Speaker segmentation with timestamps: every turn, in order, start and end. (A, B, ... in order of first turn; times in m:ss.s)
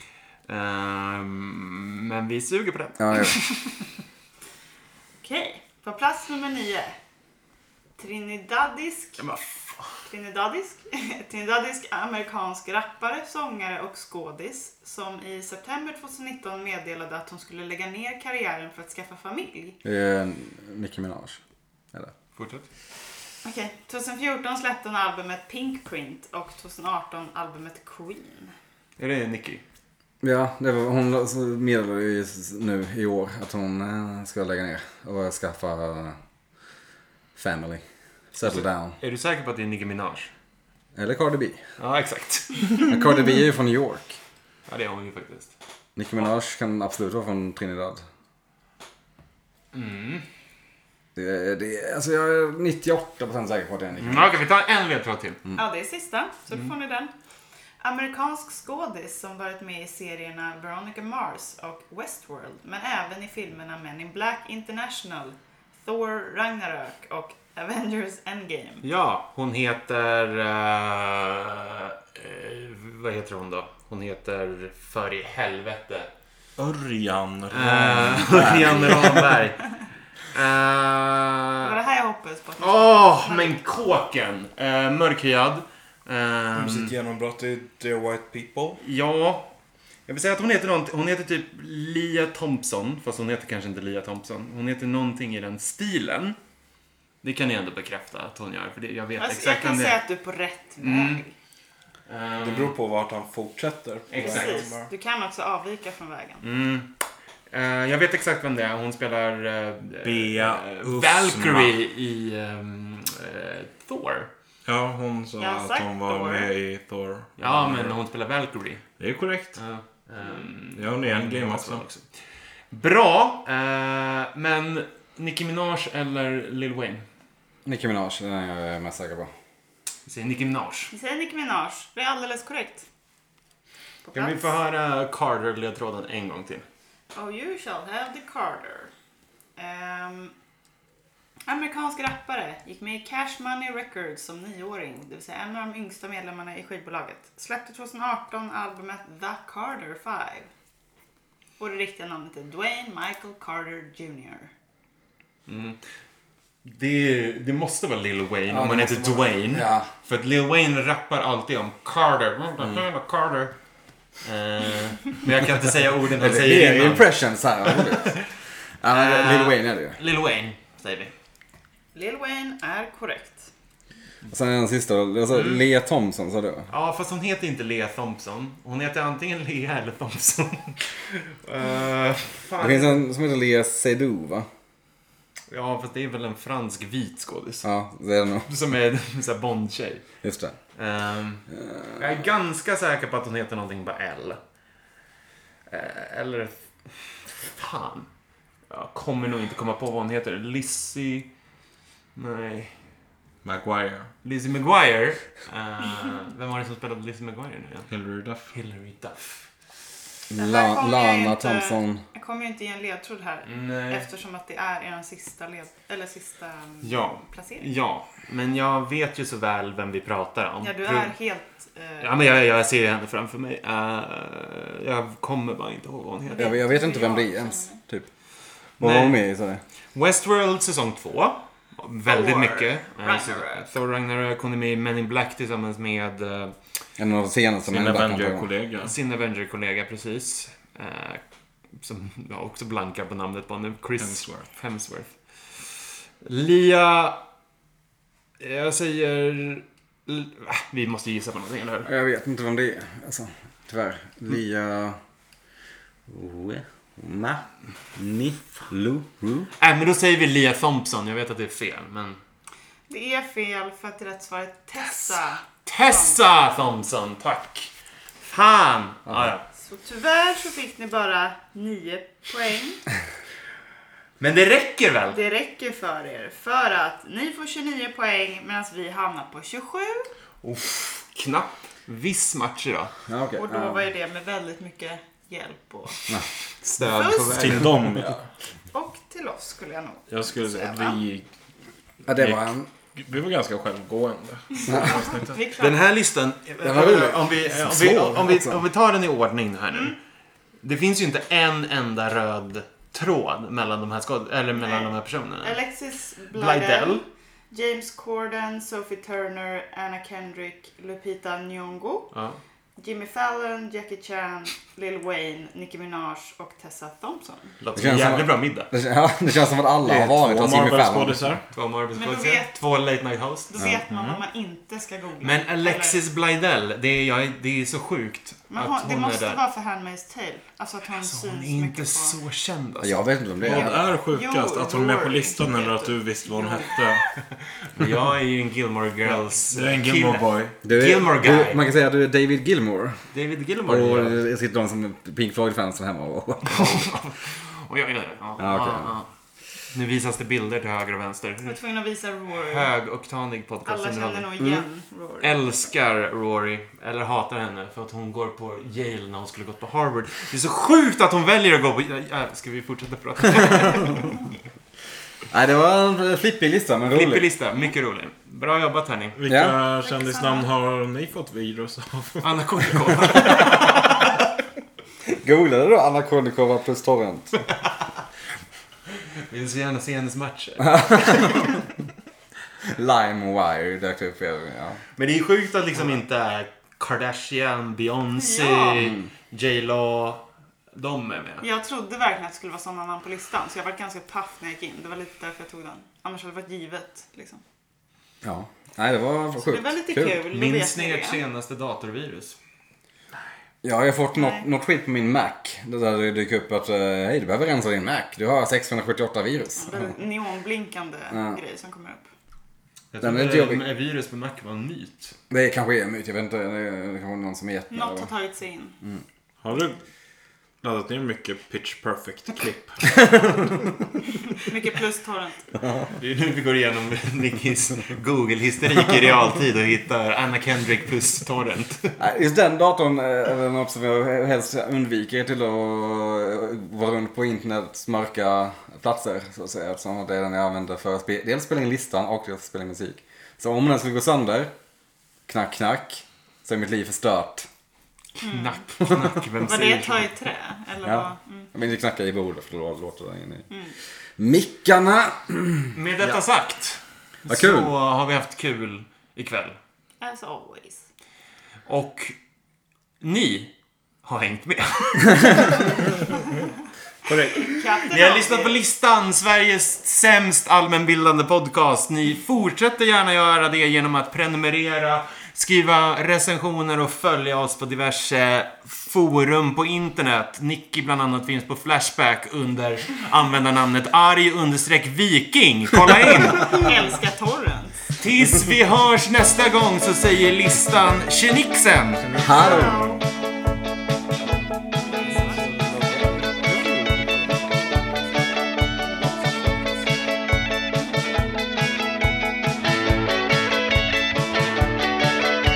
0:00.5-0:03.5 A
0:03.0-0:03.3 B
0:05.2-0:06.9 C
0:08.0-0:09.2 C
0:09.2-0:10.0 A
0:10.1-0:19.8 C
0:19.8-0:21.4 B
0:22.4-0:22.6 A
0:23.4-0:28.5 C
0:29.0-0:29.6 A
0:30.2-0:36.2 B
0:37.3-0:37.8 B
0:38.3-0:39.0 B
0:38.4-0:40.3 A
0:40.9-0:41.6 B
0:41.8-0:42.7 A
0:42.9-0:44.2 B
0:44.7-0:45.5 A
0:46.0-0:48.0 B
0:49.7-0:50.2 A
0:51.1-0:54.3 B
0:54.0-0:55.4 A
0:55.5-0:57.1 C
0:57.8-1:08.8 C
1:08.8-1:16.1 A
1:16.6-1:19.3 D
1:17.5-1:19.7 A
1:20.3-1:21.7 A
1:21.6-1:23.6 C
1:22.6-1:26.9 A
1:26.5-1:28.8 D
1:28.8-1:29.5 A
1:30.1-1:36.4 A
1:37.2-1:40.0 A
1:39.2-1:41.3 C
1:40.8-1:41.2 A
1:42.1-1:42.8 A
1:42.4-1:44.7 D
1:44.1-1:44.9 A
1:44.2-1:46.4 C
1:46.4-1:46.9 A
1:47.5-1:54.3 A
1:50.0-1:51.8 D
1:54.6-1:58.0 D
1:55.4-1:56.5 C
1:57.4-1:58.8 A
1:59.0-1:59.6 D
1:59.6-2:02.1 A
2:00.7-2:01.8 D
2:02.7-2:07.0 A
2:07.6-2:09.3 B
2:10.0-2:10.9 A
2:10.9-2:12.8 C
2:14.0-2:14.5 C
2:14.1-2:16.6 A
2:17.1-2:18.9 C
2:19.6-2:20.3 C
2:21.5-2:30.5 C
2:31.6-2:34.5 C
2:35.5-2:35.8 A
2:36.6-2:43.6 A
2:38.5-2:39.9 B
2:44.2-2:47.1 A
2:46.2-2:48.2 B
2:47.7-2:48.2 A
2:48.8-2:50.0 B
2:48.9-2:51.1 A
2:51.9-2:53.5 C
2:54.3-2:56.7 B
2:56.7-3:03.0 A
3:02.6-3:04.5 B
3:05.5-3:07.7 A
3:07.6-3:08.5 B
3:08.4-3:10.0 A
3:10.2-3:10.5 B
3:10.7-3:11.4 A
3:11.5-3:12.1 B
3:12.0-3:14.4 A
3:15.7-3:18.1 A
3:18.7-3:21.3 A
3:22.1-3:22.8 A
3:23.4-3:24.1 D
3:24.2-3:27.9 A
3:27.9-3:28.5 D
3:28.5-3:29.4 A
3:30.3-3:32.0 B
3:30.3-3:37.6 C
3:33.4-3:34.1 A
3:36.8-3:41.1 A
3:40.6-3:42.2 C
3:42.0-3:46.5 A
3:46.3-3:47.8 C
3:46.3-3:48.1 B
3:48.8-3:49.2 A
3:48.8-3:49.6 B
3:49.9-3:56.5 A
3:52.0-3:53.7 C
3:57.0-3:58.5 B
3:57.7-3:58.9 D
3:58.8-4:01.2 A
4:01.8-4:07.2 A
4:04.0-4:04.5 D
4:08.4-4:11.9 A
4:11.8-4:15.0 B
4:16.1-4:17.4 B
4:17.9-4:19.5 B
4:19.6-4:22.2 A
4:22.9-4:26.2 C
4:24.8-4:27.7 A
4:28.2-4:29.4 A
4:29.6-4:32.8 C
4:34.2-4:35.2 A
4:35.1-4:40.1 C
4:40.4-4:42.9 A
4:43.1-4:43.9 B
4:43.4-4:46.2 C
4:46.6-4:47.8 A
4:46.9-4:47.7 C
4:47.3-4:48.2 D
4:48.7-4:51.0 C
4:50.1-4:51.2 D
4:52.1-4:52.7 B
4:52.1-4:55.4 D
4:54.7-4:55.7 C
4:55.6-5:00.0 A
4:56.6-4:58.6 B
5:00.6-5:05.6 A
5:04.6-5:12.1 C
5:06.3-5:07.0 A
5:12.1-5:12.4 A
5:12.8-5:17.6 C
5:17.6-5:18.7 A
5:17.7-5:21.3 B
5:19.8-5:21.4 D
5:21.5-5:24.2 A
5:22.0-5:22.5 C
5:23.5-5:26.0 C
5:25.2-5:29.4 A
5:28.5-5:32.2 C
5:30.9-5:33.0 A
5:32.8-5:33.9 B
5:33.4-5:37.1 D
5:34.1-5:36.8 C
5:37.6-5:41.6 A
5:39.0-5:40.5 D
5:40.6-5:43.0 B
5:43.1-5:44.2 A
5:43.7-5:46.9 B
5:46.4-5:49.1 A
5:48.4-5:48.9 B
5:49.7-5:51.6 A
5:51.4-5:52.7 C
5:52.4-5:54.3 A
5:53.6-5:55.3 C
5:55.2-6:04.2 A
6:05.3-6:07.2 B
6:06.9-6:09.2 A
6:09.2-6:12.2 D
6:09.3-6:09.6 B
6:09.8-6:10.5 C
6:12.2-6:13.8 A
6:15.1-6:17.3 B
6:19.3-6:21.6 A
6:20.7-6:21.5 B
6:22.7-6:24.8 B
6:25.0-6:31.4 A
6:28.1-6:29.0 C
6:31.4-6:37.4 C
6:38.2-6:40.2 B
6:39.5-6:41.2 C
6:40.3-6:42.4 A
6:43.6-6:49.9 B
6:44.1-6:44.4 C
6:49.6-6:52.0 C
6:51.1-6:51.4 B
6:52.9-6:55.2 A
6:53.0-6:53.6 B
6:55.3-6:58.1 B
6:57.7-6:58.8 C
6:59.4-6:59.8 D
7:00.6-7:02.9 D
7:04.4-7:05.5 C
7:05.6-7:05.9 B
7:06.0-7:12.0 A
7:12.0-7:24.5 B
7:25.3-7:27.5 B
7:28.2-7:30.1 A
7:28.2-7:28.6 C
7:29.4-7:31.5 C
7:30.8-7:33.5 B
7:34.2-7:36.2 B
7:35.7-7:39.6 A
7:37.3-7:37.7 B
7:40.0-7:40.8 C
7:41.6-7:42.2 A
7:43.0-7:45.6 A
7:47.0-7:47.6 D
7:47.4-7:48.6 C
7:47.9-8:06.7 A
8:06.3-8:07.9 C
8:08.0-8:12.1 A
8:12.0-8:12.9 D
8:12.2-8:12.9 B
8:12.3-8:13.0 C
8:14.9-8:15.4 C
8:15.2-8:16.4 D